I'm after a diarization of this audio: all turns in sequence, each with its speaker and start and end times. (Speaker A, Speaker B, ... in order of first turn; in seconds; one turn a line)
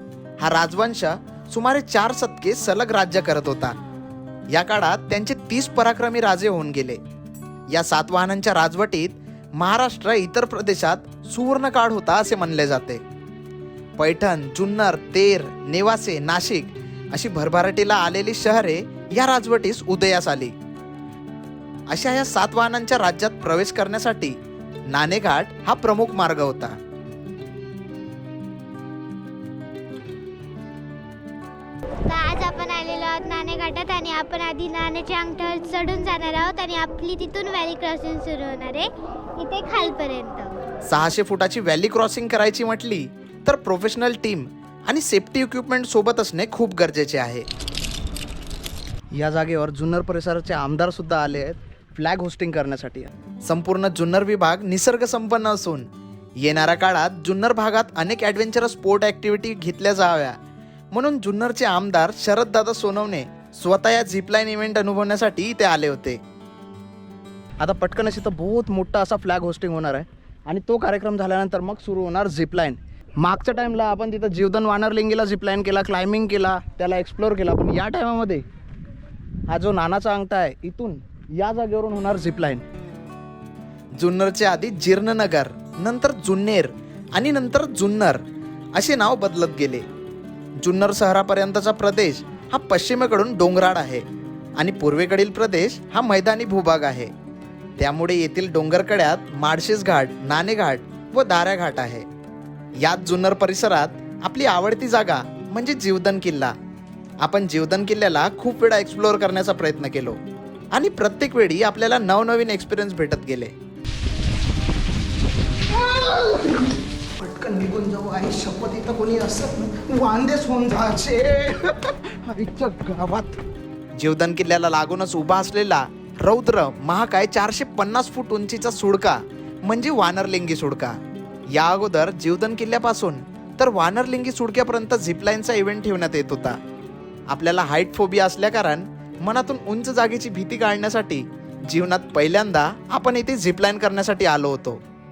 Speaker A: 0.4-3.7
Speaker A: 4.5-7.0
Speaker A: 7.7-13.0
Speaker A: 14.0-20.5
Speaker A: 21.9-24.4
Speaker A: 24.9-26.7
Speaker B: 32.1-40.5
Speaker A: 40.9-47.4
Speaker C: 49.1-53.1
Speaker A: 53.4-55.9
Speaker A: 56.4-60.3
Speaker A: 60.9-66.2
Speaker C: 67.6-78.4
Speaker C: 79.5-82.6
Speaker A: 84.0-88.2
Speaker A: 88.8-89.8
Speaker A: 90.6-94.0
Speaker A: 94.6-97.1
Speaker A: 97.8-102.0
Speaker A: 102.8-106.5
Speaker A: 107.2-110.2
Speaker A: 110.7-113.5
Speaker C: 115.7-116.6
Speaker C: 117.2-123.4
Speaker A: 124.0-130.9
Speaker A: 131.6-136.6
Speaker A: 137.3-144.8